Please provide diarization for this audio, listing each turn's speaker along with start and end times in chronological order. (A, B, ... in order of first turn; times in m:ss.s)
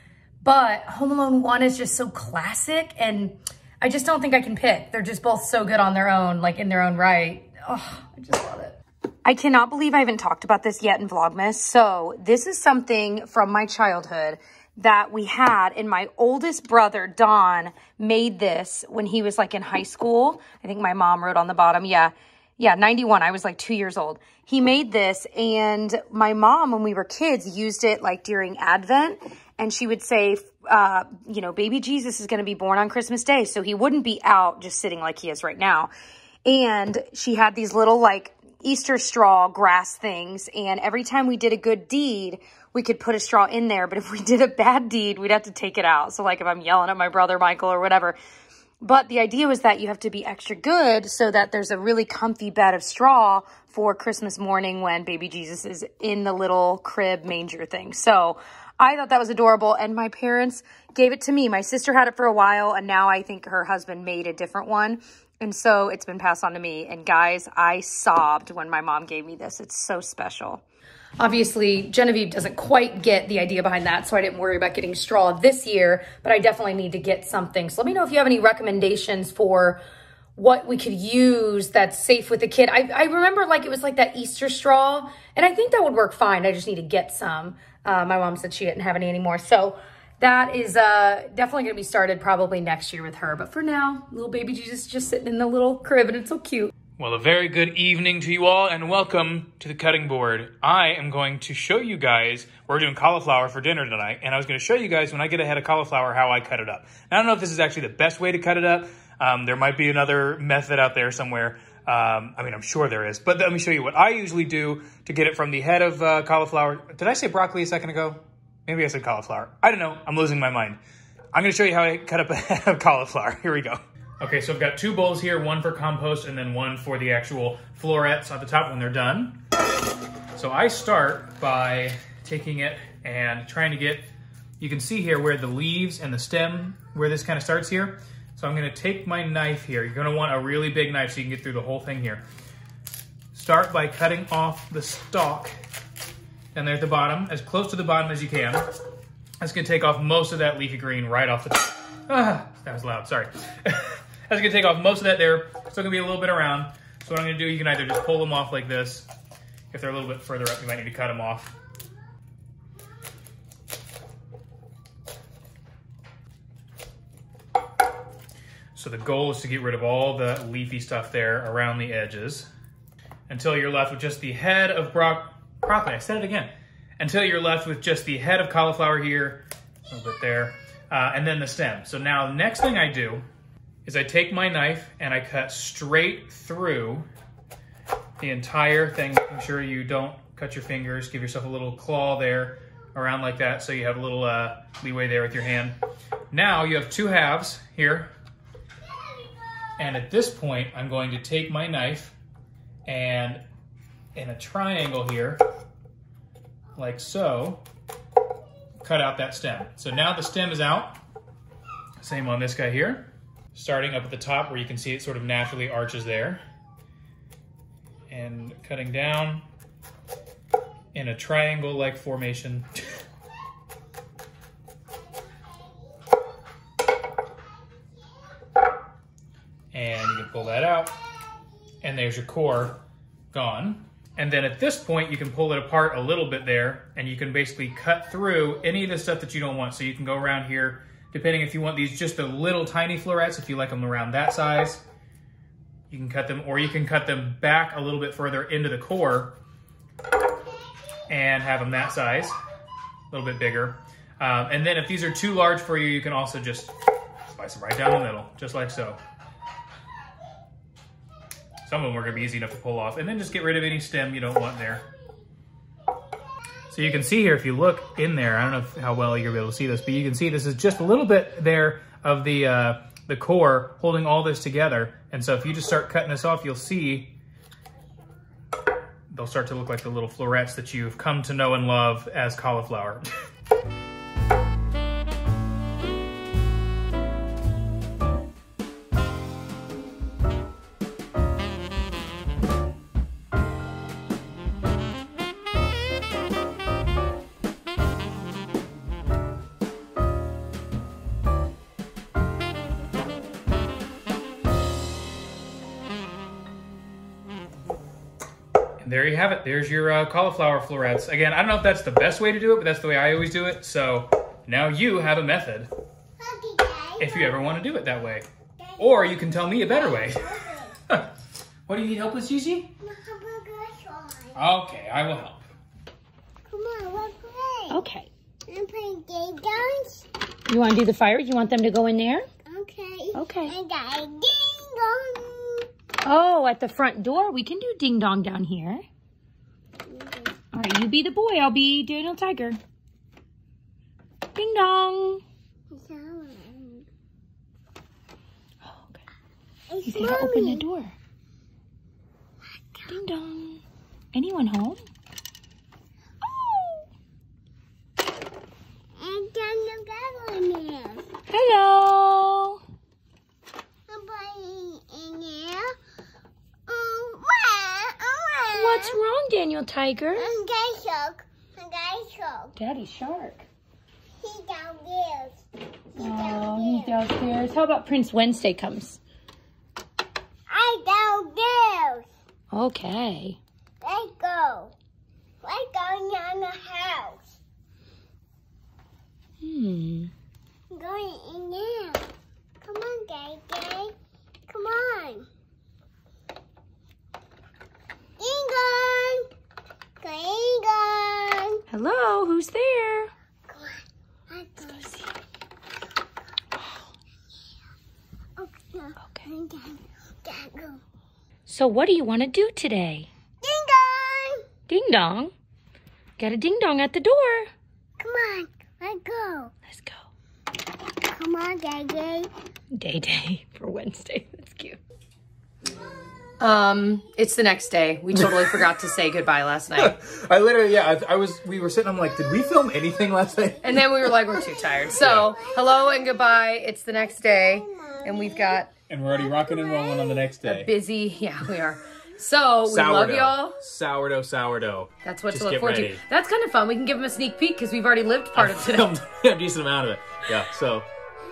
0:00.4-0:35.9 A
0:36.4-0:48.2 A
0:48.8-1:10.6 A
1:11.2-1:19.8 A
1:20.4-1:36.7 A
1:37.0-2:00.8 B
2:01.3-2:09.4 B
2:10.3-2:14.1 B
2:14.6-2:22.2 B
2:23.3-2:25.5 B
2:26.5-2:28.7 B
2:29.4-2:39.1 B
2:39.7-2:41.6 B
2:48.7-2:52.5 B
2:53.3-3:03.2 B
3:03.8-3:07.1 B
3:08.2-3:15.8 B
3:16.3-3:18.1 B
3:19.8-3:22.2 B
3:22.8-3:23.4 B
3:24.1-3:25.4 B
3:26.8-3:27.6 B
3:28.8-3:31.0 B
3:32.0-3:36.4 B
3:38.1-3:39.4 B
3:40.9-3:42.7 B
3:49.7-3:51.0 B
3:51.8-3:52.8 B
3:53.3-4:04.8 B
4:05.9-4:09.4 B
4:11.1-4:12.4 B
4:13.1-4:16.8 B
4:17.3-4:19.0 B
4:21.6-4:24.9 B
4:26.7-4:37.1 B
4:39.1-4:43.0 B
5:08.8-5:15.7 B
5:16.2-5:17.3 C
5:17.0-5:18.3 B
5:18.6-5:20.7 C
5:18.8-5:21.1 B
5:21.7-5:22.7 B
5:22.8-5:24.4 C
5:24.3-5:25.4 B
5:26.5-5:27.8 C
5:27.7-5:28.1 A
5:28.5-5:30.1 C
5:30.4-5:32.3 A
5:32.5-5:35.7 C
5:33.1-5:33.6 A
5:36.0-5:38.8 A
5:39.9-5:40.3 C
5:40.5-5:42.6 A
5:44.3-5:45.2 A
5:45.7-5:46.8 C
5:48.6-5:49.0 A
5:49.7-5:50.6 C
5:49.8-5:51.0 A
5:52.8-5:53.6 A
5:54.1-5:54.8 A
5:56.3-5:56.8 A
5:59.0-6:01.1 C
6:01.3-6:02.6 A
6:03.9-6:05.8 C
6:06.7-6:09.0 C
6:08.5-6:10.3 A
6:10.2-6:12.5 C
6:12.6-6:13.4 A
6:14.2-6:15.4 C
6:16.0-6:17.0 C
6:16.0-6:19.0 A
6:20.5-6:22.0 C
6:22.5-6:23.4 A
6:23.8-6:24.7 C
6:25.4-6:27.4 C
6:29.4-6:30.1 A
6:30.7-6:32.1 C
6:32.6-6:33.9 C
6:34.5-6:35.3 C
6:38.2-6:39.3 C
6:40.0-6:41.6 C
6:41.7-6:43.1 A
6:43.5-6:45.0 C
6:48.4-6:50.8 C
6:49.0-6:49.3 A
6:51.4-6:53.1 A
6:53.4-6:54.4 C
6:54.7-6:55.3 A
6:56.2-6:57.5 A
6:58.0-6:59.5 C
6:59.6-7:00.0 A
7:01.0-7:02.3 C
7:02.7-7:04.8 A
7:06.4-7:09.9 A
7:08.2-7:08.5 B
7:09.8-7:14.1 B
7:13.6-7:18.7 A
7:14.9-7:15.4 B
7:17.7-7:18.6 C
7:18.9-7:20.7 B
7:20.4-7:23.6 A
7:22.6-7:26.0 B
7:25.0-7:28.9 A
7:28.3-7:30.9 B